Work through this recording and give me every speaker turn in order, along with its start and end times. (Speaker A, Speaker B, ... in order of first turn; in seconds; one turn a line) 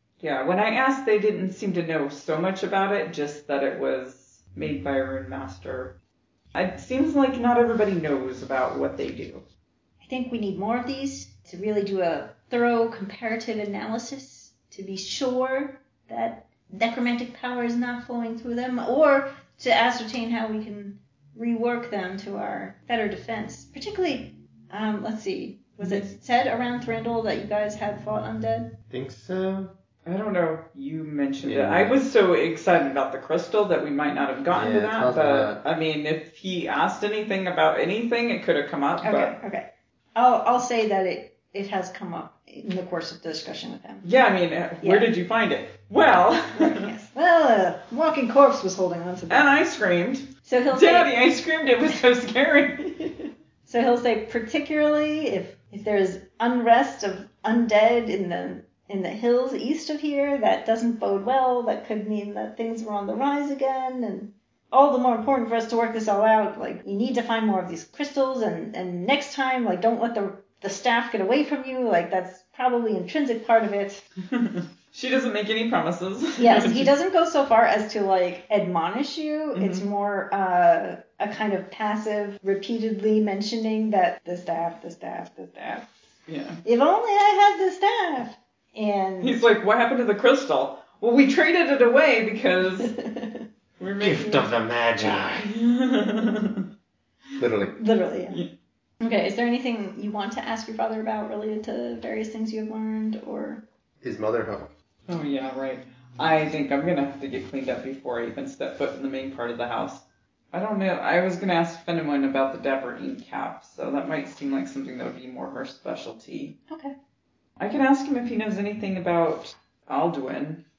Speaker A: 0.2-5.9
Speaker A: 6.5-9.4
Speaker B: 10.0-28.7
Speaker C: 28.9-29.7
Speaker A: 30.0-39.3
Speaker C: 31.4-32.0
Speaker C: 34.5-35.6
Speaker B: 39.0-44.0
Speaker A: 44.0-46.9
Speaker B: 44.8-45.1
Speaker B: 46.5-49.5
Speaker A: 49.3-52.9
Speaker B: 50.4-51.1
Speaker B: 52.9-74.0
Speaker A: 74.3-76.9
Speaker B: 76.4-85.9
Speaker A: 79.5-79.8
Speaker A: 86.3-86.6
Speaker B: 86.6-89.4
Speaker A: 89.2-92.9
Speaker B: 92.8-93.4
Speaker A: 93.8-96.7
Speaker C: 94.0-95.5
Speaker C: 97.4-97.8
Speaker B: 97.8-98.4
Speaker B: 99.0-103.6
Speaker C: 104.0-104.7
Speaker A: 105.1-116.5
Speaker B: 116.7-116.9
Speaker A: 117.6-120.6